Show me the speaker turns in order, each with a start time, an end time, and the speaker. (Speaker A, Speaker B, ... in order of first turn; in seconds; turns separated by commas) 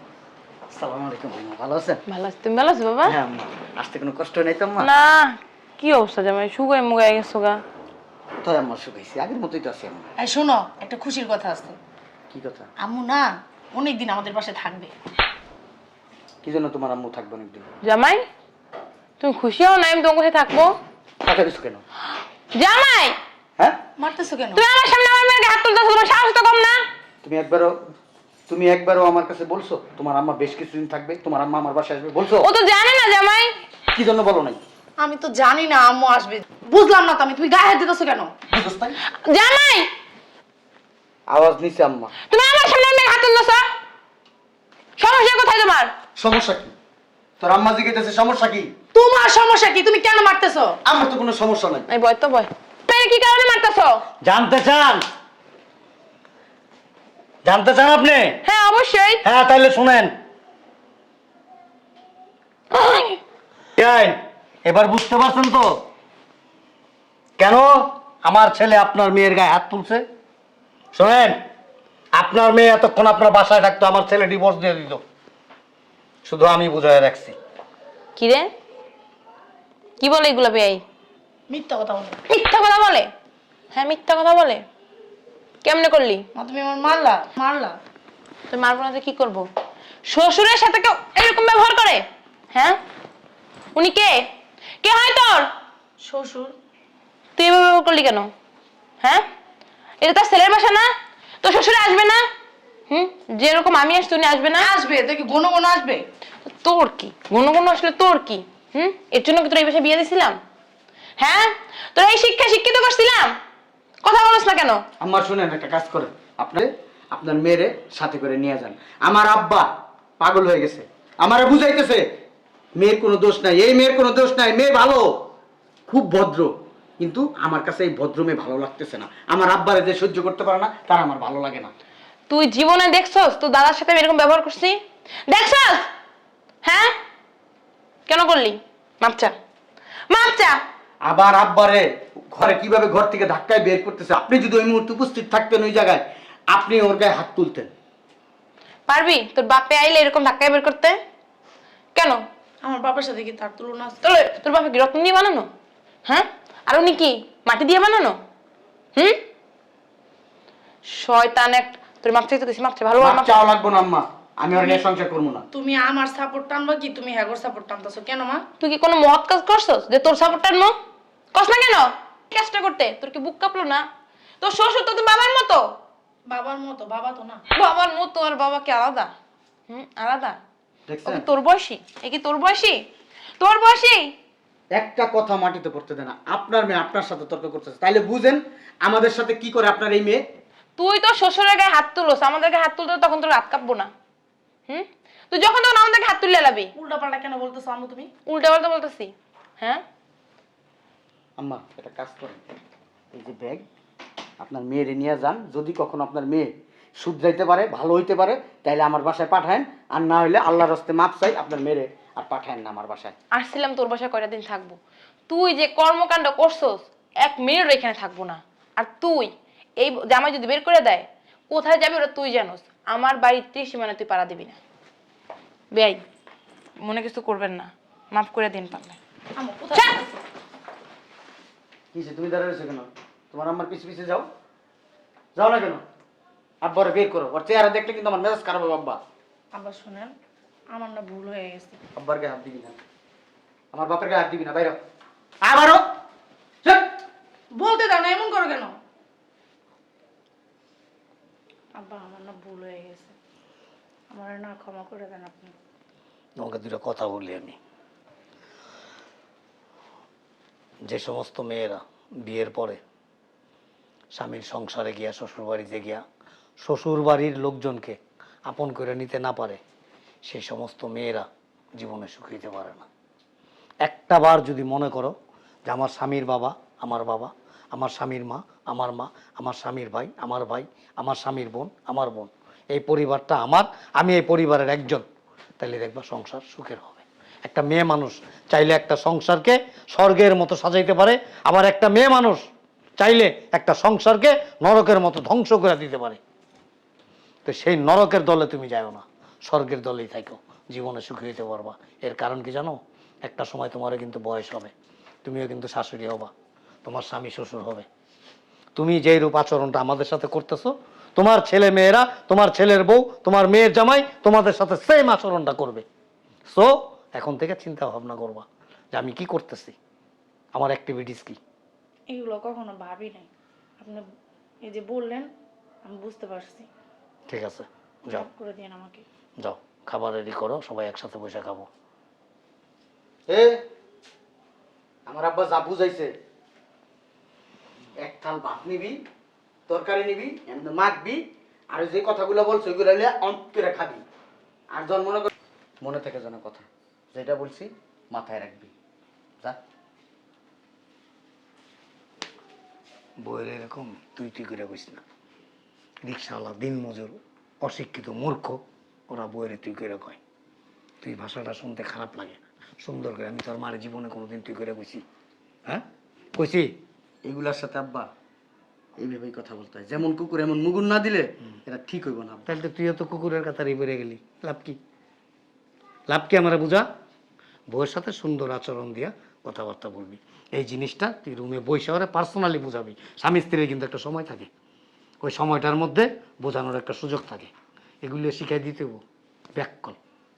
Speaker A: 0.7-2.0, Speaker B: 2.1-3.2, Speaker A: 3.0-4.9, Speaker B: 4.8-7.6, Speaker A: 8.4-10.1, Speaker C: 10.2-11.8, Speaker A: 12.3-12.7, Speaker C: 12.8-14.9, Speaker A: 16.4-17.7, Speaker B: 17.8-18.2, Speaker B: 19.2-20.8, Speaker A: 21.2-21.8, Speaker B: 22.5-23.2, Speaker C: 24.0-24.6, Speaker B: 24.6-26.8, Speaker A: 27.2-27.8, Speaker A: 28.5-32.5, Speaker B: 32.4-33.6, Speaker A: 33.9-34.6, Speaker C: 35.0-38.3, Speaker A: 38.5-39.0, Speaker B: 39.1-39.9, Speaker A: 41.3-42.1, Speaker B: 42.3-43.7, Speaker B: 45.0-45.9, Speaker A: 46.2-46.7, Speaker A: 47.4-48.7, Speaker C: 48.9-50.8, Speaker A: 50.9-51.9, Speaker B: 51.9-54.0, Speaker D: 54.2-55.0, Speaker D: 57.4-58.4, Speaker B: 58.4-59.2, Speaker D: 59.2-60.1, Speaker B: 62.7-63.2, Speaker D: 63.8-65.8, Speaker D: 67.4-70.0, Speaker D: 70.9-71.4, Speaker D: 72.1-75.0, Speaker D: 76.2-77.4, Speaker B: 78.2-78.5, Speaker B: 80.0-80.8, Speaker C: 81.5-82.2, Speaker B: 82.3-83.1, Speaker B: 83.7-84.7, Speaker B: 85.6-86.2, Speaker C: 86.3-87.8, Speaker B: 88.5-89.5, Speaker B: 90.1-92.8, Speaker B: 93.8-94.3, Speaker B: 94.8-95.5, Speaker C: 96.0-96.5, Speaker B: 97.4-98.3, Speaker B: 100.0-100.9, Speaker B: 101.4-102.2, Speaker B: 102.9-104.7, Speaker C: 104.6-106.0, Speaker B: 106.4-110.4, Speaker B: 111.2-113.3, Speaker B: 114.0-114.8, Speaker A: 115.0-119.7, Speaker A: 120.2-122.0, Speaker A: 122.8-125.2, Speaker A: 125.9-131.7, Speaker B: 132.3-135.9, Speaker B: 136.6-136.9, Speaker B: 138.1-139.3, Speaker B: 140.1-140.6, Speaker A: 141.0-147.7, Speaker B: 148.9-151.0, Speaker B: 151.9-152.2, Speaker C: 152.6-154.0, Speaker B: 154.0-155.5, Speaker B: 156.1-158.2, Speaker B: 159.0-159.2, Speaker B: 160.9-163.4, Speaker A: 163.0-165.5, Speaker C: 165.5-168.4, Speaker B: 168.6-170.7, Speaker B: 171.3-173.9, Speaker B: 174.4-175.7, Speaker C: 176.3-177.4, Speaker B: 177.5-179.1, Speaker B: 179.7-180.4, Speaker A: 180.9-181.2, Speaker B: 181.1-182.8, Speaker B: 183.4-184.1, Speaker A: 184.7-190.2, Speaker B: 190.8-193.9, Speaker B: 194.7-196.7, Speaker C: 196.8-198.1, Speaker B: 198.3-199.8, Speaker A: 201.4-202.4, Speaker A: 203.1-203.7, Speaker A: 204.4-213.2, Speaker B: 213.3-224.6, Speaker B: 225.7-226.0, Speaker B: 226.8-229.0, Speaker C: 229.3-230.1, Speaker A: 231.9-234.3, Speaker A: 235.4-235.8, Speaker A: 236.6-239.0, Speaker C: 239.5-240.1, Speaker C: 240.7-241.8, Speaker A: 242.0-242.8, Speaker A: 243.7-244.8, Speaker A: 245.4-245.8, Speaker C: 247.6-248.7, Speaker C: 251.8-253.1, Speaker C: 254.1-255.6, Speaker D: 256.4-257.6, Speaker D: 260.9-262.8, Speaker D: 264.1-266.0, Speaker D: 266.6-268.0, Speaker D: 268.5-269.6, Speaker D: 270.3-271.3, Speaker D: 271.8-272.9, Speaker D: 273.8-275.1, Speaker D: 275.7-285.1, Speaker D: 285.6-292.4, Speaker D: 293.0-296.2, Speaker D: 297.4-304.7, Speaker D: 305.2-306.3, Speaker D: 306.9-307.9, Speaker D: 308.8-315.9, Speaker D: 316.5-319.8, Speaker D: 320.5-321.4, Speaker C: 322.1-323.3, Speaker C: 324.6-325.3, Speaker C: 325.9-326.7, Speaker D: 327.3-328.3, Speaker C: 328.1-329.0, Speaker D: 329.4-331.7, Speaker A: 333.3-333.6, Speaker A: 335.1-336.1, Speaker A: 338.0-339.0, Speaker A: 339.7-344.0, Speaker A: 344.7-348.7, Speaker D: 353.2-355.0, Speaker D: 356.0-360.2, Speaker D: 361.0-365.0, Speaker D: 366.4-366.8, Speaker A: 367.2-368.1, Speaker A: 369.0-372.4, Speaker D: 372.5-374.8, Speaker D: 376.1-376.9, Speaker D: 377.7-384.5, Speaker D: 385.2-387.5, Speaker D: 388.0-389.0, Speaker D: 389.6-390.0